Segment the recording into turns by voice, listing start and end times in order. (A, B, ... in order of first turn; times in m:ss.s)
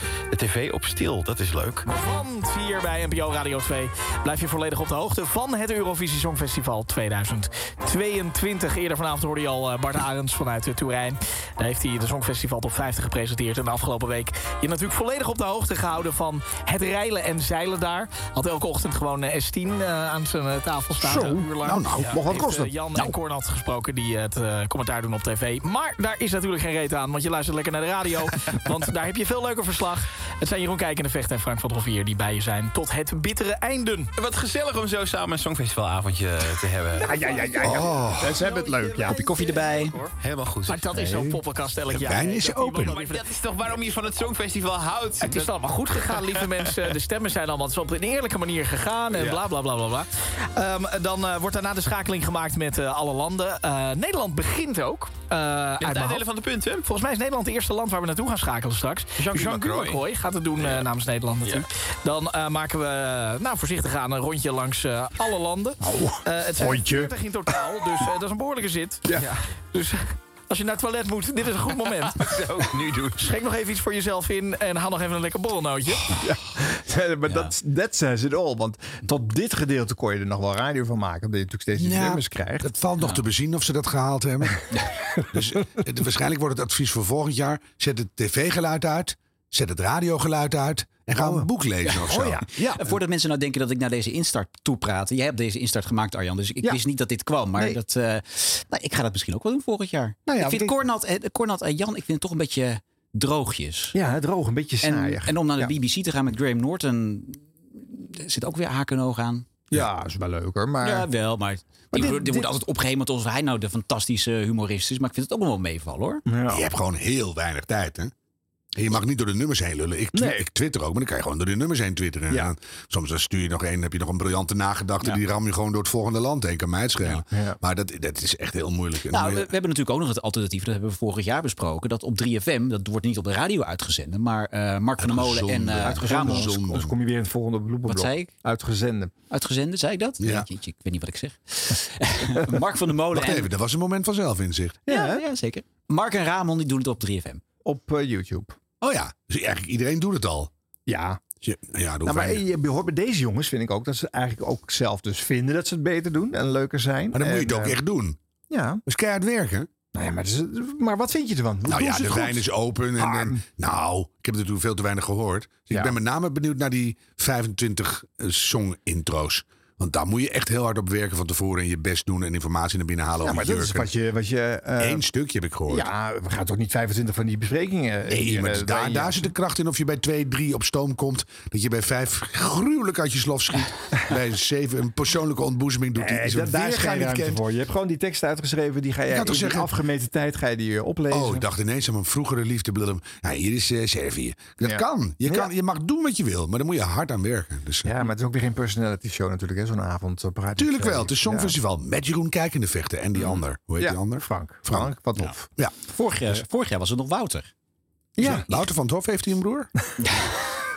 0:00.3-0:01.8 A
0:01.9-0:34.1 B
0:21.0-0:22.5 C
0:21.1-0:21.4 D
0:22.1-0:23.2 D
0:34.2-0:37.1 A
0:37.0-0:39.3 D
0:37.0-0:40.1 B
0:37.6-0:38.4 C
0:39.2-0:40.0 E
0:40.2-0:41.1 A
0:40.7-0:43.2 B
0:41.9-0:43.0 C
0:42.8-0:45.5 A
0:45.2-0:56.2 B
0:46.1-0:46.7 A
0:55.8-0:56.9 A
0:56.8-1:12.4 B
0:59.2-1:00.0 A
1:05.8-1:07.1 D
1:12.2-1:13.2 A
1:13.2-1:16.1 B
1:16.1-1:22.7 D
1:17.3-1:17.5 E
1:21.8-1:33.0 C
1:23.0-1:23.3 E
1:24.7-1:25.0 E
1:31.2-1:31.5 D
1:31.9-1:44.0 E
1:32.1-1:32.5 D
1:40.3-1:40.8 D
1:43.9-1:45.8 D
1:44.8-1:49.6 E
1:49.7-1:51.1 D
1:50.8-1:56.2 E
1:51.9-1:52.6 D
1:56.3-1:56.7 D
1:56.5-1:58.1 C
1:58.8-2:09.5 C
2:00.1-2:00.5 D
2:07.3-2:07.6 D
2:09.1-2:16.5 E
2:15.0-2:16.9 C
2:15.8-2:19.1 D
2:17.9-2:18.3 E
2:19.3-2:23.5 E
2:20.2-2:20.5 C
2:23.1-2:24.9 C
2:24.9-2:25.3 D
2:24.9-2:27.4 E
2:27.6-2:28.6 D
2:28.8-2:30.5 C
2:30.9-2:31.2 D
2:31.4-2:32.4 C
2:32.0-2:37.8 D
2:37.1-2:38.2 C
2:38.5-2:38.8 D
2:38.9-2:39.7 C
2:39.9-2:43.4 D
2:41.7-2:53.9 C
2:45.7-2:46.0 D
2:53.2-2:55.1 D
2:54.8-2:55.9 C
2:55.7-2:59.3 D
2:58.1-3:07.4 C
3:06.0-3:11.5 D
3:09.1-3:09.7 C
3:11.1-3:17.9 C
3:14.6-3:15.5 D
3:17.8-3:21.6 D
3:20.6-3:24.9 C
3:23.8-3:25.4 D
3:25.2-3:27.5 E
3:25.4-3:26.5 C
3:28.2-3:28.5 D
3:28.2-3:29.7 C